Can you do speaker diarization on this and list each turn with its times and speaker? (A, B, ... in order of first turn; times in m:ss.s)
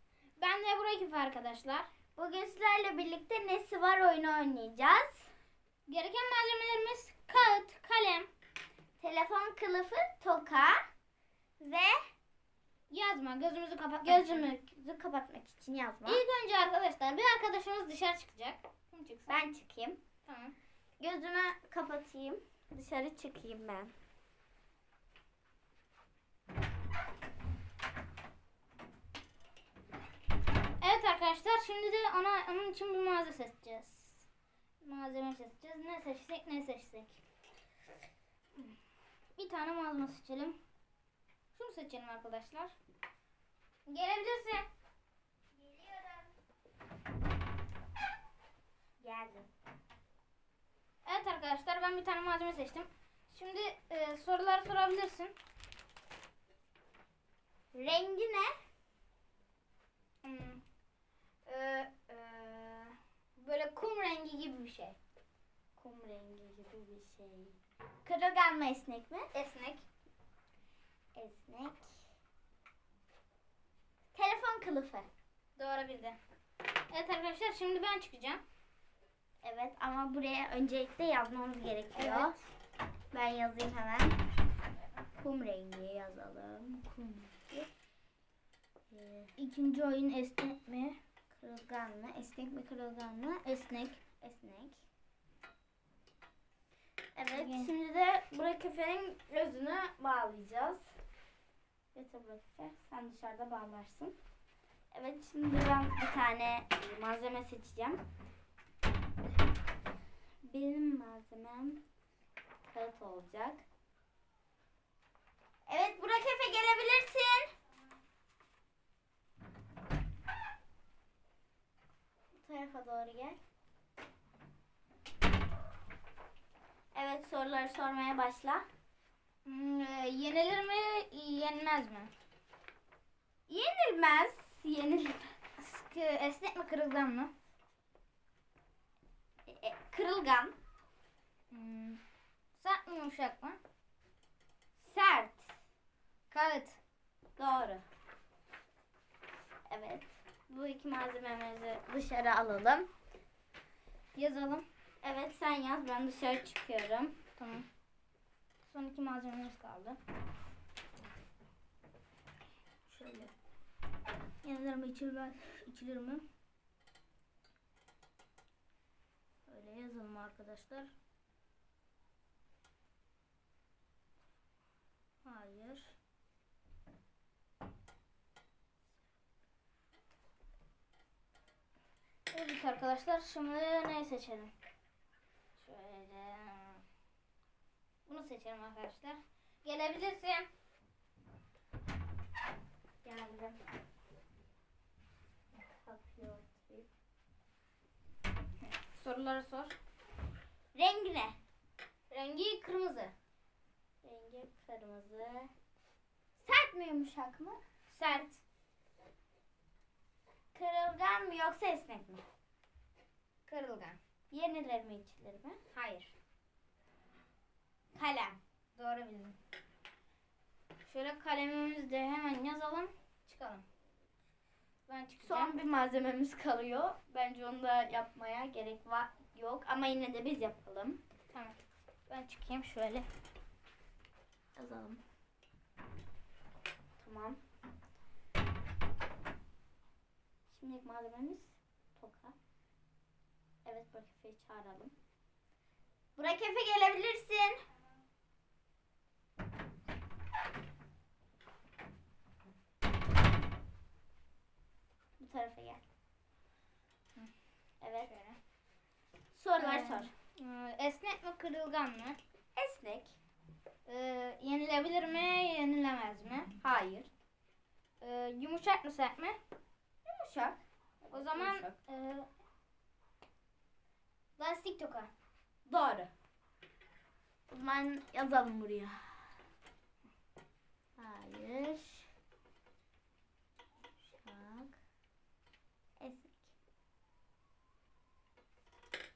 0:00.4-0:01.9 A
0:02.1-0:05.3 B
0:05.9-0:08.3 A
0:09.0-0:10.8 B
0:11.6-0:12.0 B
0:12.9-0:14.5 A
0:14.0-0:16.2 B
0:16.0-0:19.3 A
0:19.3-0:20.0 B
0:20.2-0:20.5 A
0:21.0-0:23.9 B
0:30.8-0:34.2 A
0:34.8-0:37.2 A
0:39.4-0:40.6 A
0:41.5-0:42.7 A
0:43.8-0:44.7 A
0:45.6-0:46.3 B
0:49.0-0:49.5 B
0:51.0-0:55.3 A
0:57.7-0:58.5 B
1:00.2-1:00.6 A
1:01.4-1:05.0 A
1:05.8-1:09.3 B
1:09.3-1:09.8 A
1:11.1-1:12.0 B
1:14.1-1:15.1 B
1:15.6-1:16.2 A
1:16.9-1:18.4 A
1:19.4-1:22.4 B
1:21.9-1:22.4 A
1:23.1-1:24.2 B
1:25.1-1:27.7 B
1:28.9-1:29.3 B
1:29.4-1:31.0 A
1:31.3-1:33.4 B
1:33.4-1:34.0 A
1:34.2-1:34.8 B
1:37.2-1:40.9 B
1:37.3-1:37.7 A
1:41.9-1:44.1 B
1:44.9-1:48.0 B
1:50.4-1:51.8 B
1:52.7-1:53.6 B
1:55.7-1:57.5 B
2:02.4-2:03.4 B
2:06.9-2:08.6 B
2:09.4-2:12.1 A
2:13.5-2:15.3 B
2:15.6-2:17.3 A
2:19.4-2:20.5 B
2:21.5-2:22.0 A
2:22.6-2:23.6 A
2:24.8-2:25.5 B
2:26.3-2:26.8 A
2:27.4-2:27.8 B
2:29.7-2:32.9 B
2:34.1-2:34.6 A
2:35.0-2:37.2 B
2:37.4-2:37.6 A
2:38.7-2:40.0 A
2:42.9-2:43.3 A
2:44.4-2:46.2 A
2:49.5-2:50.9 A
2:55.2-2:55.9 A
3:02.3-3:04.5 A
3:05.6-3:06.8 A
3:08.0-3:10.5 A
3:13.0-3:13.6 B
3:15.6-3:16.9 B
3:18.6-3:19.7 A
3:20.7-3:21.4 B
3:22.1-3:23.1 A
3:24.0-3:25.5 B
3:26.4-3:27.6 B
3:27.9-3:28.4 A
3:30.5-3:32.2 B
3:33.4-3:34.0 A
3:34.3-3:35.6 B
3:35.7-3:36.1 A
3:38.0-3:39.4 A
3:40.8-3:43.6 A
3:44.9-3:45.6 A
3:45.2-3:51.0 B
3:51.3-3:51.6 A
3:52.1-3:53.1 A
3:54.6-3:55.0 B
3:57.0-3:57.4 B
4:00.5-4:02.3 B
4:03.6-4:04.9 B
4:06.2-4:07.6 B
4:15.2-4:15.8 B
4:17.8-4:18.1 B
4:18.1-4:18.4 A
4:19.3-4:20.1 B
4:19.6-4:22.2 A
4:22.5-4:23.1 B
4:23.8-4:26.5 A
4:26.6-4:27.1 B
4:28.0-4:29.4 A
4:30.0-4:31.7 B
4:31.1-4:32.3 A
4:34.4-4:35.1 A
4:35.6-4:36.1 B
4:37.5-4:39.1 B
4:41.0-4:42.1 B
4:44.1-4:44.8 B
4:46.0-4:46.5 B